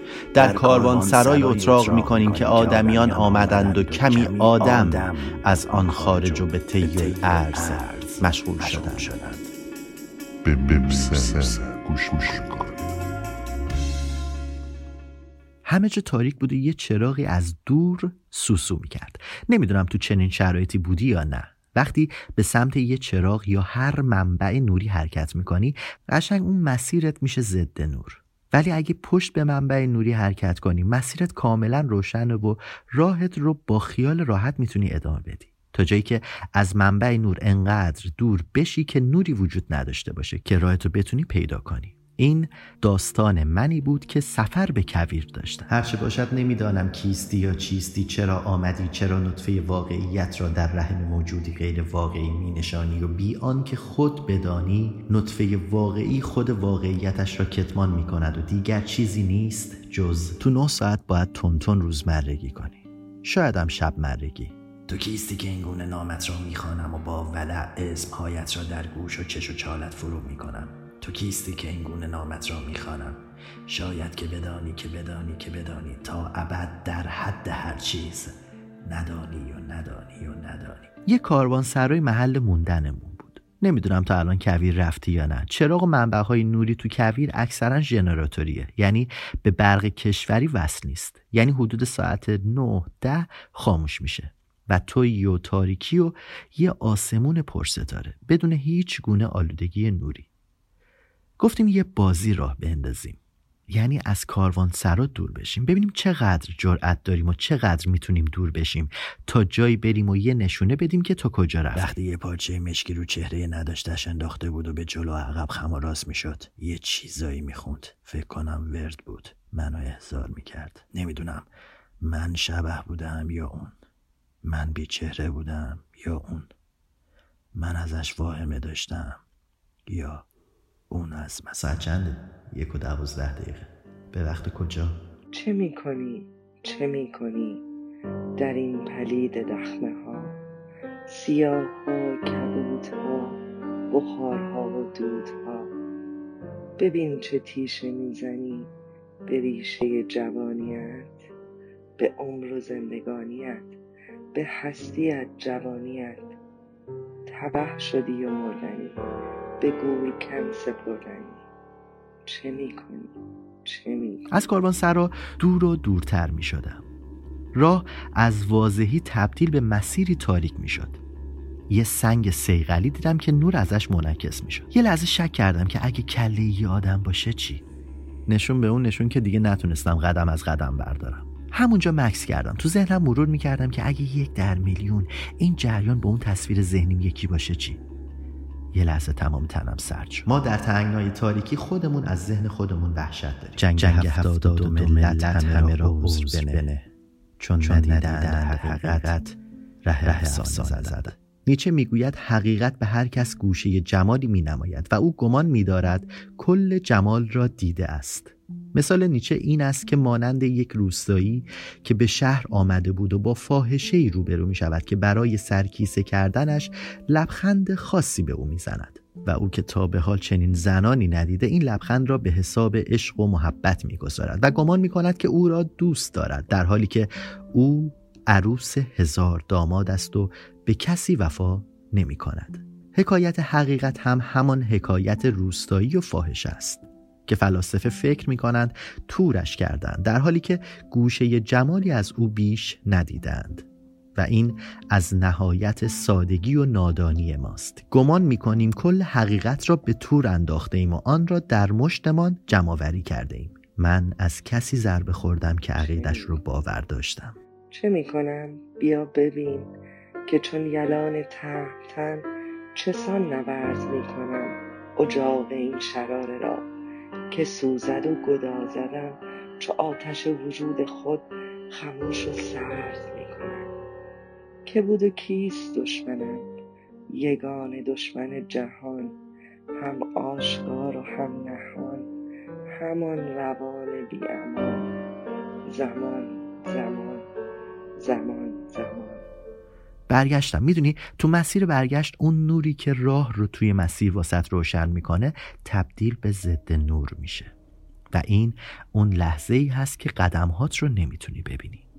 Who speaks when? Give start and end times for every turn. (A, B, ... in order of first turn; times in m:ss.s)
0:00.3-0:09.1 A
0:00.4-0:09.5 B
0:10.4-0:12.8 C
0:10.8-0:11.6 B
0:15.6-1:04.5 A
1:04.9-1:18.3 B
1:18.9-1:20.9 B
1:21.0-1:40.3 A
1:41.4-1:51.9 A
1:51.7-2:01.5 B
2:02.0-2:03.8 B
2:04.4-2:06.5 B
2:07.6-2:09.2 B
2:09.9-2:10.2 B
2:10.9-2:11.7 B
2:11.5-2:15.0 A
2:15.3-2:17.6 D
2:18.4-2:20.4 D
2:21.1-2:23.4 D
2:23.9-2:25.7 D
2:26.8-2:28.7 D
2:29.2-2:31.3 D
2:32.0-2:33.8 D
2:34.3-2:36.3 D
2:37.3-2:39.0 D
2:39.6-2:41.4 D
2:42.2-2:44.3 D
2:44.3-2:46.8 A
2:47.5-2:51.0 A
2:51.7-2:57.6 A
2:58.3-3:07.8 A
3:08.7-3:16.7 A
3:13.8-3:16.9 B
3:17.4-3:19.4 A
3:17.6-3:19.1 B
3:19.9-3:21.1 B
3:20.0-4:17.4 A
4:15.8-4:16.4 D
4:17.7-4:19.7 D
4:20.2-4:26.7 D
4:27.3-4:33.7 D
4:34.6-4:36.5 D
4:37.1-4:39.2 D
4:39.7-4:42.1 D
4:42.7-4:44.9 D
4:45.6-4:47.3 D
4:48.0-4:49.2 D
4:50.1-4:57.5 A
4:58.1-5:01.8 A